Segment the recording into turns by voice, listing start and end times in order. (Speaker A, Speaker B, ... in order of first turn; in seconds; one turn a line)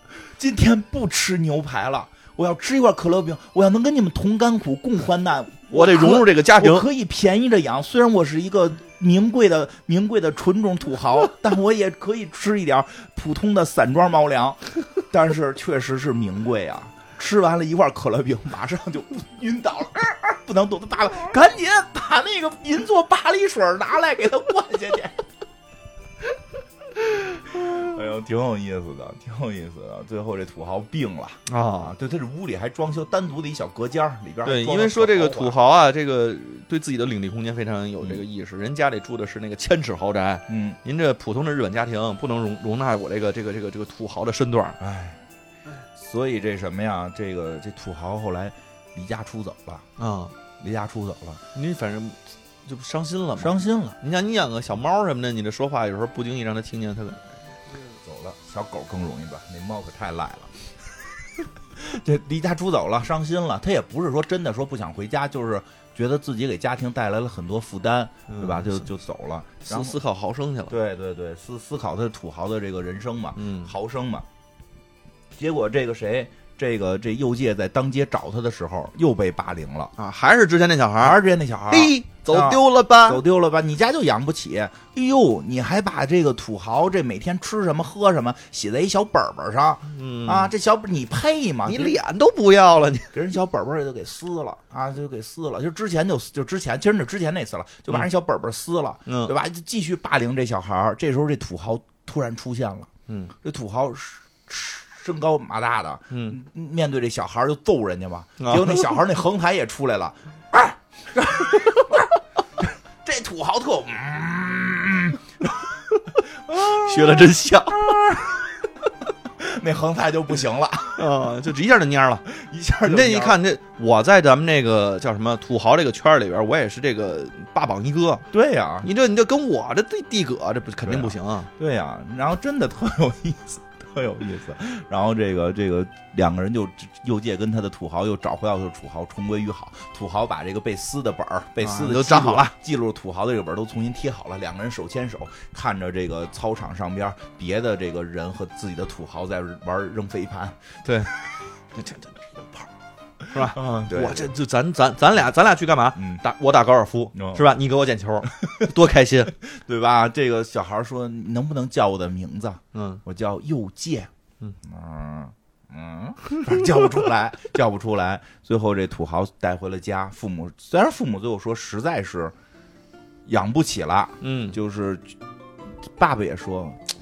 Speaker A: 0.4-25.2
Speaker B: 5.7-6.9
Speaker A: 26.9-35.6
Speaker B: 31.5-31.9
Speaker B: 34.5-44.8
Speaker A: 40.5-40.8
Speaker A: 44.8-45.2
Speaker A: 45.9-49.9
Speaker B: 50.0-50.3
Speaker A: 50.6-51.4
Speaker B: 51.5-57.2
Speaker A: 53.4-54.0
Speaker A: 58.0-60.6
Speaker A: 61.4-70.0
Speaker B: 68.3-68.9
Speaker B: 69.7-70.8
Speaker A: 70.7-74.3
Speaker B: 73.4-73.7
Speaker A: 75.3-79.9
Speaker B: 80.0-83.2
Speaker A: 81.0-92.0
Speaker B: 89.9-90.5
Speaker B: 91.7-93.1
Speaker A: 93.1-102.9
Speaker B: 99.1-99.3
Speaker B: 103.1-103.3
Speaker A: 103.4-118.7
Speaker B: 106.1-106.4
Speaker B: 108.4-109.0
Speaker B: 116.6-118.0
Speaker A: 119.4-121.1
Speaker B: 121.0-122.3
Speaker A: 122.3-123.4
Speaker B: 122.9-128.3
Speaker A: 128.3-128.9
Speaker B: 128.8-131.5
Speaker A: 130.8-150.6
Speaker B: 141.6-142.5
Speaker B: 150.8-151.1
Speaker B: 151.8-152.7
Speaker B: 153.3-159.3
Speaker A: 153.3-154.3
Speaker A: 156.0-156.2
Speaker A: 157.2-157.4
Speaker A: 159.4-164.1
Speaker B: 162.7-163.0
Speaker A: 164.6-172.3
Speaker A: 173.3-175.2
Speaker B: 174.2-174.6
Speaker A: 175.9-176.8